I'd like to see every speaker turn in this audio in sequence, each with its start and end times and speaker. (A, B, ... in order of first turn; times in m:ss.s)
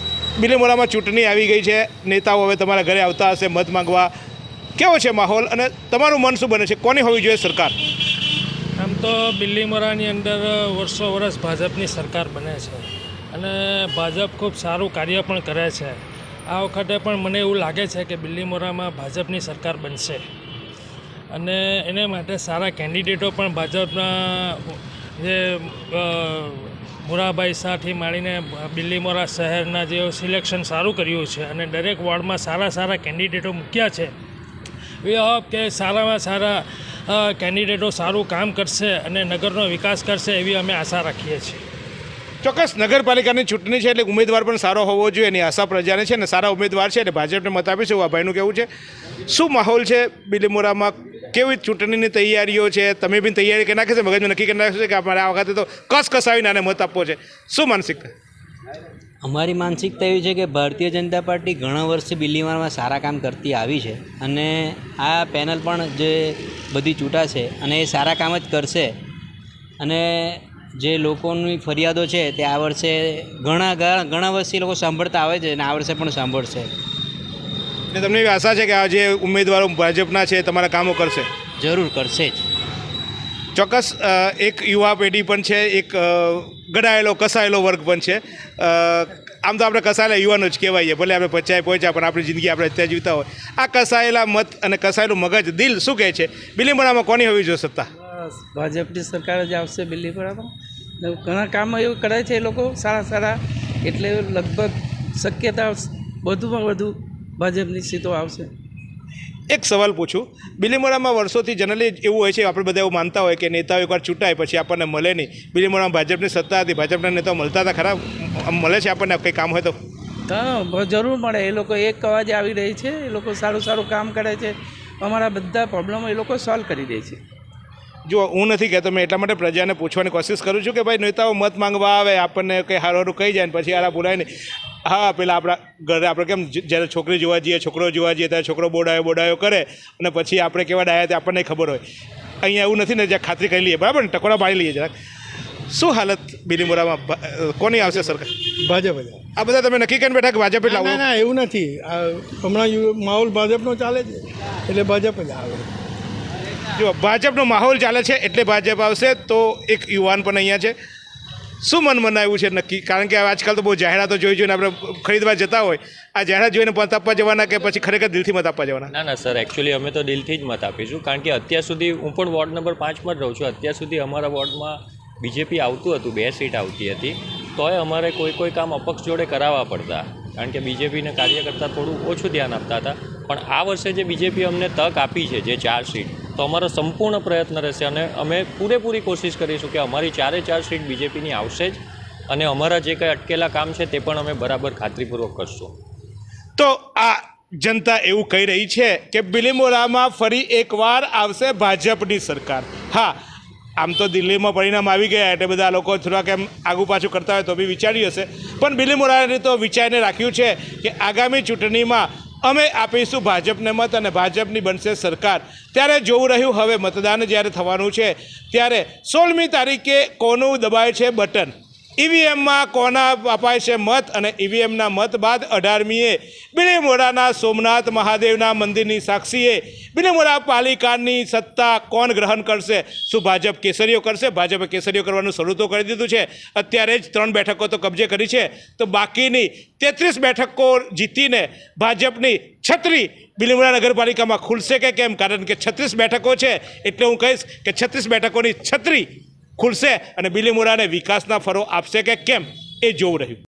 0:00.4-0:04.1 A
0:04.8-0:07.7 A
0:08.8-0:16.0 B
0:16.5-0:20.2 B
0:21.3-0:34.1 B
0:35.0-0:41.6 B
0:42.4-0:48.7 A
0:49.3-0:58.1 A
0:59.2-1:09.0 C
1:09.8-1:16.7 C
1:17.9-1:21.3 A
1:21.6-1:22.5 C
1:23.6-1:37.9 A
1:38.0-1:40.5 D
1:41.0-1:48.5 D
1:49.5-1:59.8 A
2:00.3-2:07.2 D
2:08.1-2:14.3 A
2:14.9-2:21.8 A
2:22.4-2:24.9 A
2:25.7-2:28.3 A
2:28.6-2:29.2 E
2:29.4-2:31.0 A
2:30.7-2:35.7 E
2:36.7-2:40.8 A
2:41.6-2:48.9 A
2:48.9-3:15.7 F
3:16.6-3:23.2 A
3:23.8-4:13.4 A